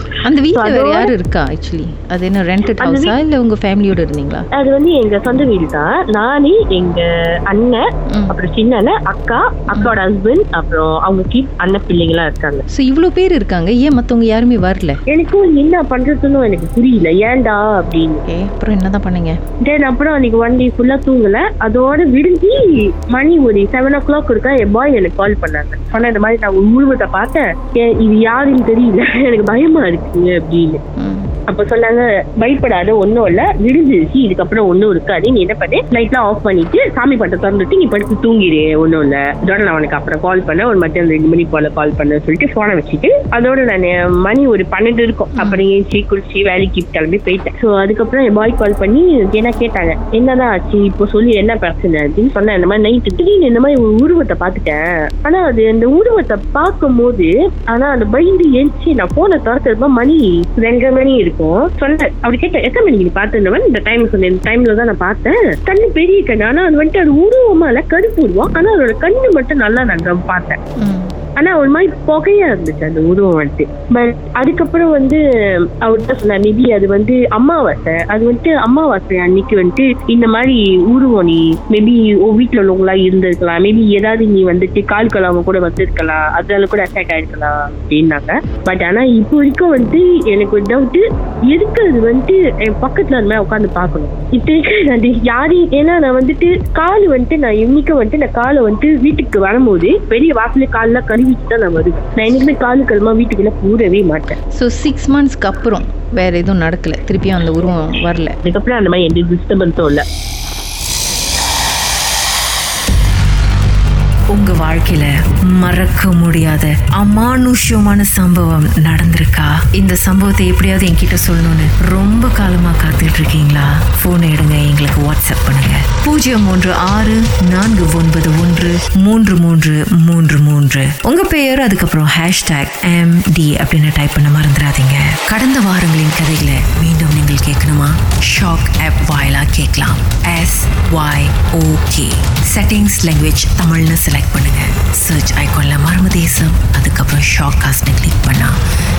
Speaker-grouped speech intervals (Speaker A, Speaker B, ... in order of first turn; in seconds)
Speaker A: 0.2-4.4, 12.7-15.0, 18.3-19.4, 31.0-31.3, 45.3-45.6, 70.8-71.1, 104.5-108.3, 114.5-115.0, 115.7-116.6, 117.2-119.4, 120.0-120.4, 121.1-121.4, 124.9-125.6, 128.0-128.5, 129.2-130.7, 131.6-132.8, 134.0-134.8
Speaker B: 0.5-1.1, 2.8-3.1, 4.5-12.6, 15.1-18.2, 19.6-30.8, 31.5-70.6, 71.4-75.2, 75.8-104.3, 108.4-110.0
Speaker C: 114.3-115.0, 115.7-148.5